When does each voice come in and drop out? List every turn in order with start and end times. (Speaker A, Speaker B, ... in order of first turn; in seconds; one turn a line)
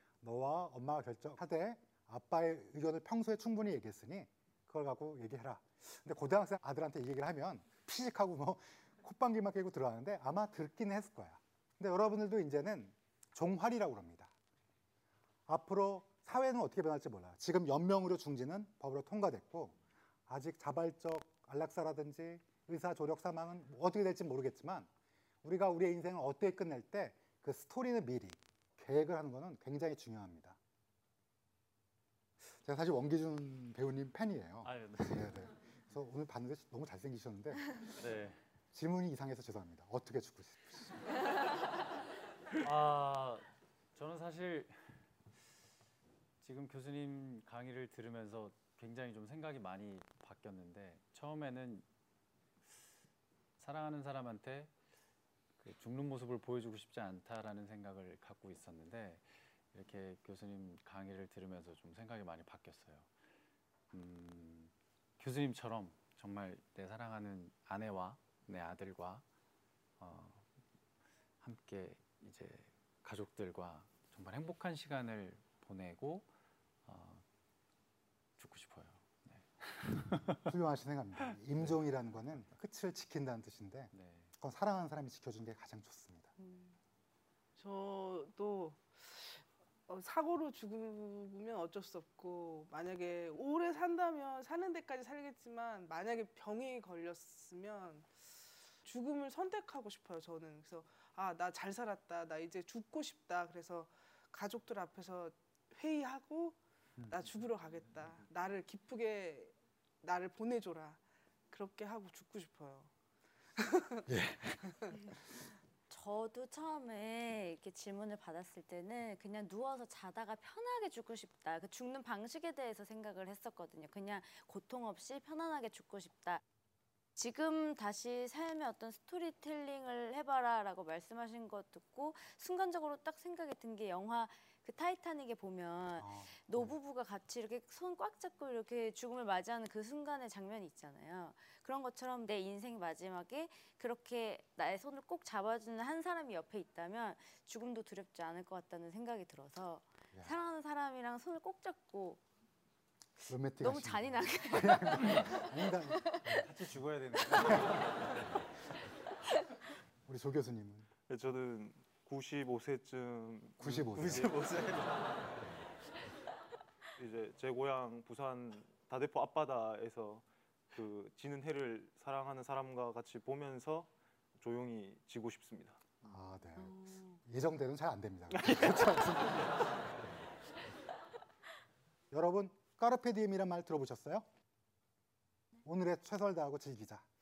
Speaker A: 0.2-14.3
Speaker A: 15.5-24.9
Speaker A: 25.4-30.6
Speaker A: 32.5-37.8
Speaker B: 34.6-35.5
Speaker B: 38.0-38.4
Speaker A: 38.7-41.0
Speaker B: 42.6-44.8
Speaker B: 46.4-51.9
Speaker B: 53.6-54.7
Speaker B: 55.6-63.1
Speaker B: 63.9-69.2
Speaker B: 70.0-70.5
Speaker B: 71.4-76.3
Speaker B: 76.8-77.2
Speaker B: 78.4-80.5
Speaker A: 80.4-86.3
Speaker B: 83.9-84.3
Speaker C: 87.5-98.2
Speaker C: 98.8-106.6
Speaker C: 107.1-112.9
Speaker C: 113.6-114.1
Speaker A: 114.1-114.8
Speaker D: 115.9-126.4
Speaker D: 127.2-152.2
Speaker A: 136.0-136.7
Speaker A: 153.3-156.4
Speaker D: 153.6-156.2
Speaker B: 156.3-158.2
Speaker A: 157.3-157.7
Speaker A: 160.1-160.9
Speaker E: 161.1-165.2
Speaker A: 163.6-164.4
Speaker E: 167.0-175.9
Speaker A: 176.0-179.6
Speaker A: 182.1-184.3
Speaker A: 185.6-187.0